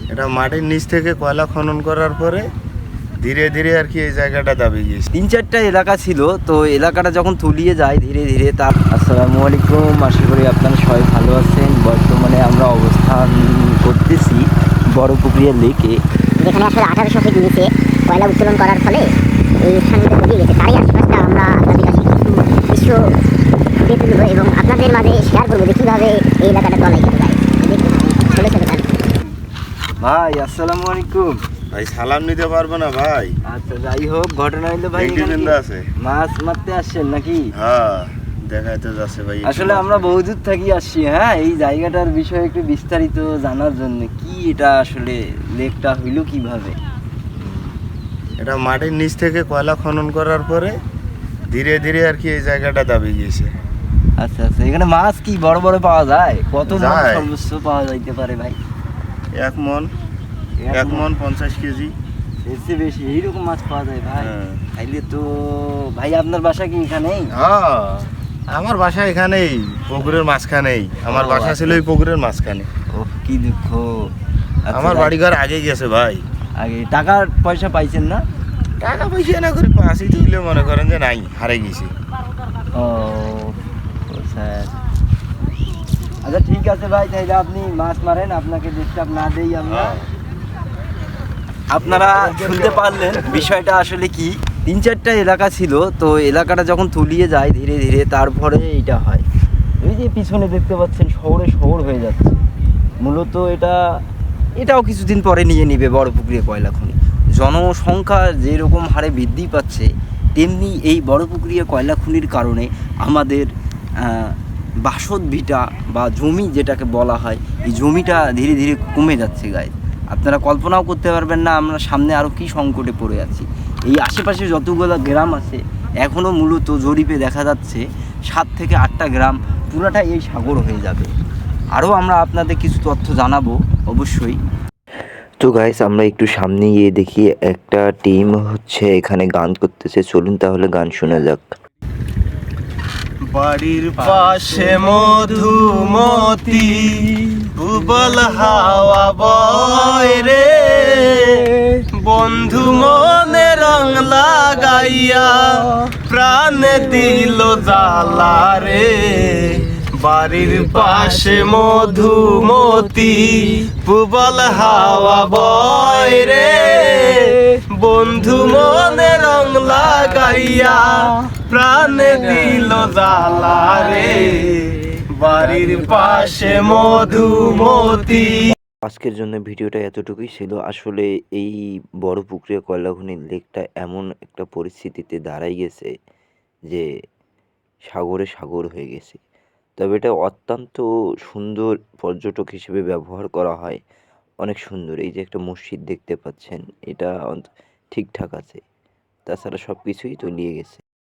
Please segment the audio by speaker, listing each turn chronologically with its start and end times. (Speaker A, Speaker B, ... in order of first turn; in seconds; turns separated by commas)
Speaker A: 0.1-2.4, Speaker A: 3.2-5.1, Speaker B: 5.1-14.4, Speaker B: 14.9-16.0, Speaker C: 16.4-19.1, Speaker C: 19.7-23.0, Speaker C: 23.8-28.9, Speaker B: 30.0-31.4, Speaker A: 31.7-33.3, Speaker B: 33.5-37.5, Speaker A: 35.0-35.8, Speaker A: 37.5-40.2, Speaker B: 39.4-46.8, Speaker A: 47.4-47.8, Speaker A: 48.4-50.7, Speaker A: 51.5-53.5, Speaker B: 54.2-58.6, Speaker A: 56.6-57.3, Speaker A: 59.4-59.9, Speaker B: 60.6-61.1, Speaker A: 60.7-61.9, Speaker B: 62.4-67.3, Speaker A: 64.2-64.6, Speaker A: 67.4-72.7, Speaker B: 71.1-71.8, Speaker B: 72.9-74.1, Speaker B: 74.7-75.2, Speaker A: 74.7-76.2, Speaker B: 76.6-78.2, Speaker A: 78.8-81.9, Speaker B: 82.8-83.5, Speaker B: 84.1-84.7, Speaker B: 86.2-90.0, Speaker A: 89.7-90.0, Speaker B: 91.7-99.2, Speaker A: 91.8-93.4, Speaker B: 99.8-102.3, Speaker B: 103.0-103.8, Speaker B: 104.6-131.1, Speaker B: 131.7-134.4, Speaker D: 135.4-141.5, Speaker E: 143.3-178.5, Speaker D: 178.8-185.9, Speaker D: 187.9-189.2, Speaker D: 189.8-193.8, Speaker B: 192.8-193.6, Speaker B: 194.5-194.9, Speaker D: 194.6-196.8, Speaker B: 196.0-197.4, Speaker B: 198.0-198.2, Speaker D: 198.2-198.6, Speaker B: 199.3-200.8, Speaker D: 200.1-200.7